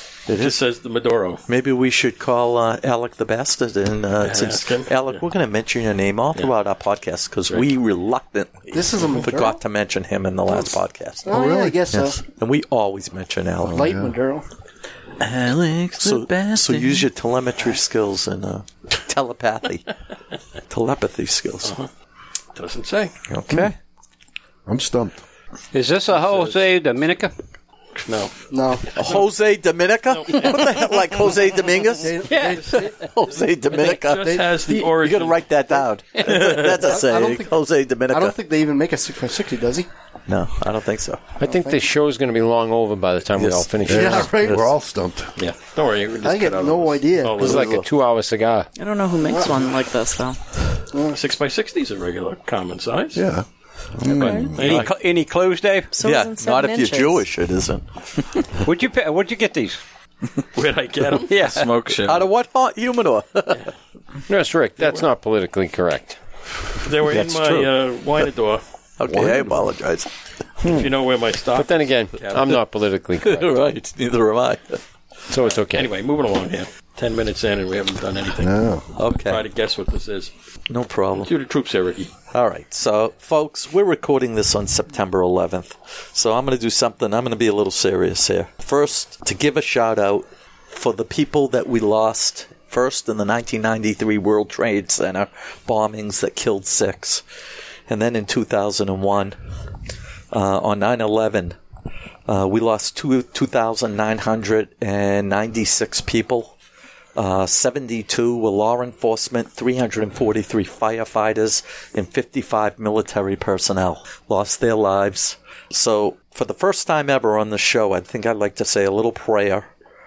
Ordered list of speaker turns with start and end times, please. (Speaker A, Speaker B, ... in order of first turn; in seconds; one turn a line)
Speaker A: 0.3-0.6
Speaker B: 0.3-1.4
Speaker A: 1.5-11.3
Speaker B: 4.2-5.2
Speaker C: 8.7-9.6
Speaker C: 10.5-12.2
Speaker D: 11.3-11.9
Speaker A: 11.9-13.9
Speaker C: 13.7-14.4
Speaker D: 13.7-14.1
Speaker E: 15.2-17.1
Speaker A: 16.0-19.9
Speaker A: 20.7-21.8
Speaker B: 21.6-21.9
Speaker B: 22.6-23.1
Speaker A: 23.3-23.8
Speaker D: 24.7-25.2
Speaker F: 25.7-27.3
Speaker B: 26.1-26.6
Speaker B: 28.0-29.2
Speaker C: 28.5-29.1
Speaker A: 29.0-38.4
Speaker B: 30.1-30.5
Speaker C: 32.0-33.0
Speaker B: 33.7-35.5
Speaker C: 34.1-34.6
Speaker B: 36.2-36.8
Speaker C: 36.3-37.5
Speaker C: 38.1-39.9
Speaker A: 40.3-41.2
Speaker G: 41.4-44.5
Speaker C: 41.4-41.8
Speaker A: 43.4-44.2
Speaker C: 43.9-44.7
Speaker D: 43.9-45.3
Speaker B: 45.4-47.8
Speaker C: 46.2-47.5
Speaker G: 47.4-48.7
Speaker A: 47.4-47.9
Speaker H: 48.8-50.4
Speaker C: 49.3-49.7
Speaker C: 50.9-51.2
Speaker B: 51.1-53.2
Speaker D: 53.1-54.6
Speaker H: 54.1-54.5
Speaker B: 54.2-54.9
Speaker A: 54.3-54.9
Speaker F: 54.6-55.9
Speaker H: 55.9-57.2
Speaker A: 56.0-57.9
Speaker F: 58.6-59.8
Speaker B: 60.5-61.4
Speaker E: 61.3-62.3
Speaker A: 62.0-63.7
Speaker G: 64.3-66.2
Speaker B: 64.8-65.0
Speaker B: 66.8-68.6
Speaker A: 67.0-67.7
Speaker A: 69.0-70.1
Speaker G: 69.1-69.7
Speaker B: 70.6-72.6
Speaker G: 71.5-73.5
Speaker A: 73.2-74.8
Speaker G: 75.3-75.9
Speaker B: 75.7-80.3
Speaker D: 78.4-78.8
Speaker A: 79.0-79.5
Speaker A: 80.7-81.3
Speaker B: 81.2-82.1
Speaker A: 82.3-97.2
Speaker A: 97.9-99.4
Speaker A: 100.3-101.6
Speaker A: 102.3-106.6
Speaker A: 107.2-119.7